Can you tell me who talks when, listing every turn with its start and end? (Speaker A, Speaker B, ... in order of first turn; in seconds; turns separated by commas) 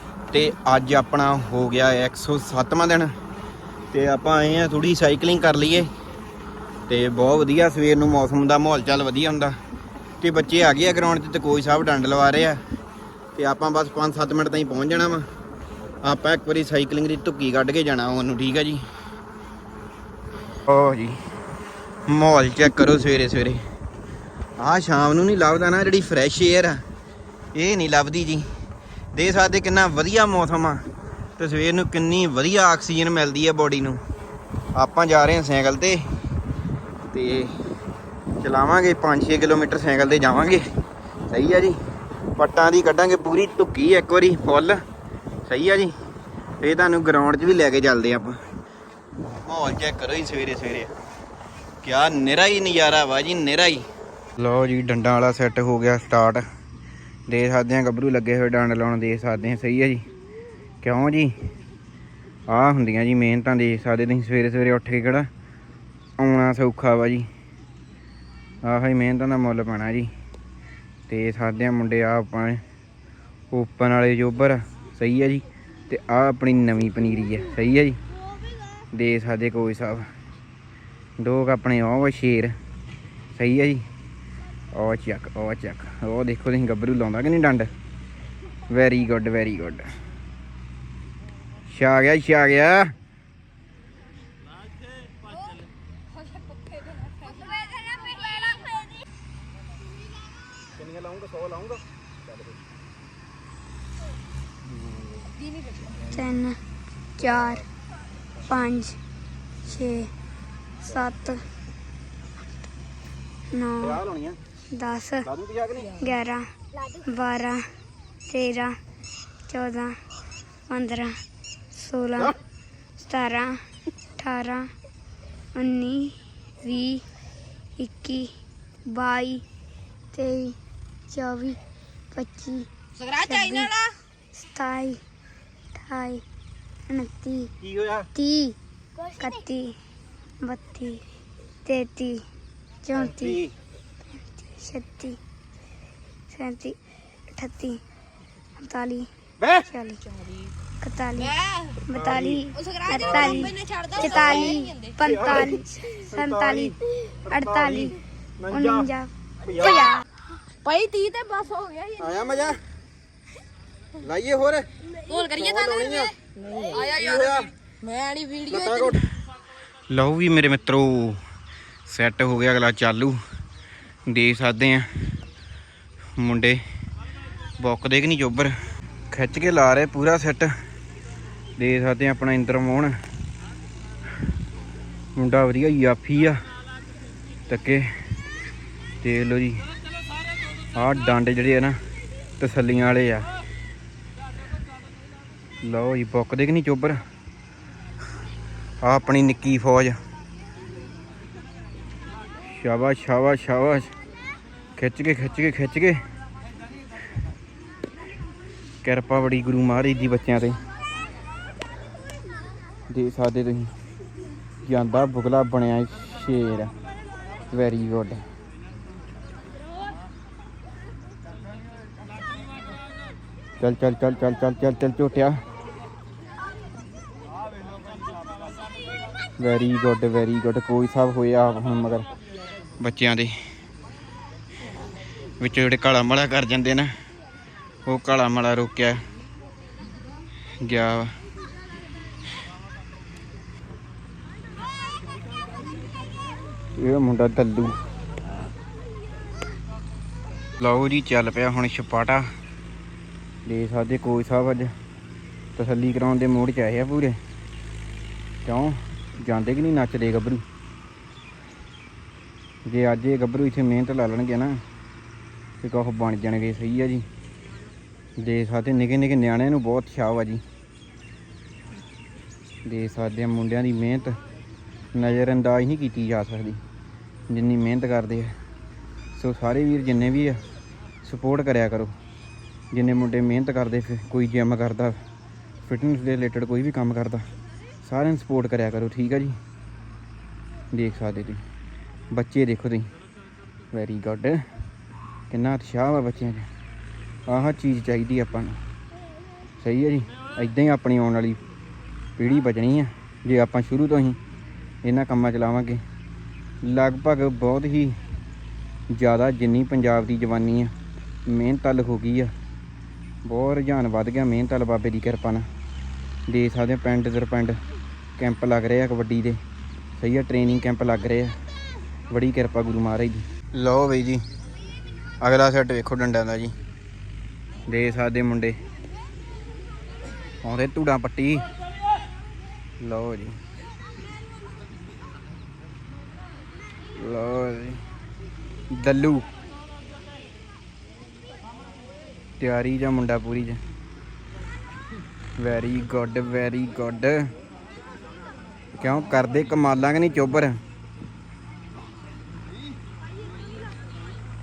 Speaker A: 0.3-3.1, Speaker A: 3.9-5.9, Speaker A: 6.9-9.6, Speaker A: 10.2-12.6, Speaker A: 13.4-15.3, Speaker A: 16.0-18.8, Speaker A: 20.7-21.2, Speaker A: 22.1-23.6, Speaker A: 24.6-26.8, Speaker A: 27.6-28.5, Speaker A: 29.1-30.8, Speaker A: 31.4-34.0, Speaker A: 34.8-36.0, Speaker A: 37.1-37.5, Speaker A: 38.4-40.6, Speaker A: 41.3-41.8, Speaker A: 42.4-44.8, Speaker A: 45.5-45.9, Speaker A: 46.6-48.4, Speaker A: 49.4-50.9, Speaker A: 51.8-53.9, Speaker A: 54.4-56.4, Speaker A: 57.3-60.0, Speaker A: 60.8-61.3, Speaker A: 62.5-65.3, Speaker A: 66.2-67.3, Speaker A: 68.6-70.1, Speaker A: 71.1-72.6, Speaker A: 73.5-78.0, Speaker A: 78.9-80.1, Speaker A: 81.2-82.5, Speaker A: 83.3-83.8, Speaker A: 84.7-87.7, Speaker A: 88.7-89.9, Speaker A: 91.7-92.9, Speaker B: 97.0-98.7, Speaker A: 100.8-101.8, Speaker C: 106.0-106.6, Speaker C: 107.2-107.7, Speaker C: 108.5-109.0, Speaker C: 109.7-110.1, Speaker C: 110.8-111.4, Speaker C: 113.5-114.0, Speaker A: 113.8-114.4, Speaker C: 114.7-115.3, Speaker A: 115.2-116.0, Speaker C: 115.9-117.7, Speaker C: 118.3-118.8, Speaker C: 119.5-120.0, Speaker C: 120.7-121.2, Speaker C: 121.7-122.3, Speaker C: 123.0-123.6, Speaker C: 124.2-124.7, Speaker C: 125.5-127.0, Speaker C: 127.8-128.3, Speaker C: 128.9-129.4, Speaker C: 130.1-130.6, Speaker C: 131.1-131.6, Speaker C: 132.1-133.7, Speaker B: 133.0-133.9, Speaker C: 134.4-135.0, Speaker C: 135.8-136.2, Speaker C: 136.9-137.5, Speaker A: 137.6-138.1, Speaker C: 138.2-138.6, Speaker C: 139.2-139.8, Speaker C: 140.4-141.0, Speaker C: 141.7-142.2, Speaker C: 142.8-143.4, Speaker A: 142.9-143.5, Speaker C: 144.4-145.2, Speaker C: 146.3-146.8, Speaker C: 147.3-147.8, Speaker C: 148.6-149.1, Speaker C: 149.6-150.0, Speaker C: 150.8-158.0, Speaker B: 151.3-151.8, Speaker A: 151.9-152.4, Speaker B: 152.6-155.0, Speaker A: 153.0-153.4, Speaker A: 154.0-156.8, Speaker A: 157.3-158.9, Speaker C: 158.5-160.0, Speaker A: 159.4-159.9, Speaker B: 160.6-162.4, Speaker A: 162.0-162.6, Speaker A: 164.0-164.7, Speaker B: 165.0-169.0, Speaker A: 165.3-166.2, Speaker A: 166.8-167.5, Speaker A: 168.5-169.0, Speaker A: 169.9-171.2, Speaker A: 171.9-173.2, Speaker A: 174.1-174.9, Speaker A: 176.2-176.6, Speaker A: 177.6-178.5, Speaker A: 179.1-180.5, Speaker A: 181.6-183.0, Speaker A: 185.2-186.4, Speaker A: 187.5-188.0, Speaker A: 189.0-189.7, Speaker A: 190.7-191.8, Speaker A: 192.4-193.3, Speaker A: 195.6-197.0, Speaker A: 198.8-200.0, Speaker A: 202.4-203.9, Speaker A: 204.8-206.0, Speaker A: 208.8-210.6, Speaker A: 212.9-213.7, Speaker A: 214.6-216.7, Speaker A: 217.5-218.2, Speaker A: 223.6-225.4, Speaker A: 229.4-232.1, Speaker A: 232.8-233.3, Speaker A: 235.4-236.9, Speaker A: 237.9-239.0, Speaker A: 240.6-241.1, Speaker A: 246.8-247.7, Speaker A: 250.6-252.2, Speaker A: 253.5-254.7, Speaker A: 255.6-257.2, Speaker A: 258.4-260.4, Speaker A: 262.7-264.6, Speaker A: 265.6-267.1, Speaker A: 268.2-270.4, Speaker A: 272.6-274.2, Speaker A: 274.9-276.6, Speaker A: 277.3-278.3, Speaker A: 279.1-280.4, Speaker A: 281.0-281.9, Speaker A: 282.7-285.0, Speaker A: 285.7-287.2, Speaker A: 287.8-289.4, Speaker A: 290.7-291.4, Speaker A: 292.1-292.9, Speaker A: 293.7-294.4, Speaker A: 295.3-296.5, Speaker A: 297.3-298.6, Speaker A: 299.6-301.4, Speaker A: 302.2-304.2, Speaker A: 304.8-305.8, Speaker A: 306.6-308.0, Speaker A: 308.9-310.7, Speaker A: 311.3-312.3, Speaker A: 313.2-315.5, Speaker A: 316.3-317.6, Speaker A: 318.2-319.4, Speaker A: 320.0-321.4, Speaker A: 322.1-324.2, Speaker A: 325.2-326.6, Speaker A: 327.7-328.6, Speaker A: 330.4-331.5, Speaker A: 332.8-333.4, Speaker A: 337.0-337.9, Speaker A: 338.7-339.3, Speaker A: 342.4-343.6, Speaker A: 345.4-347.3, Speaker A: 348.8-350.6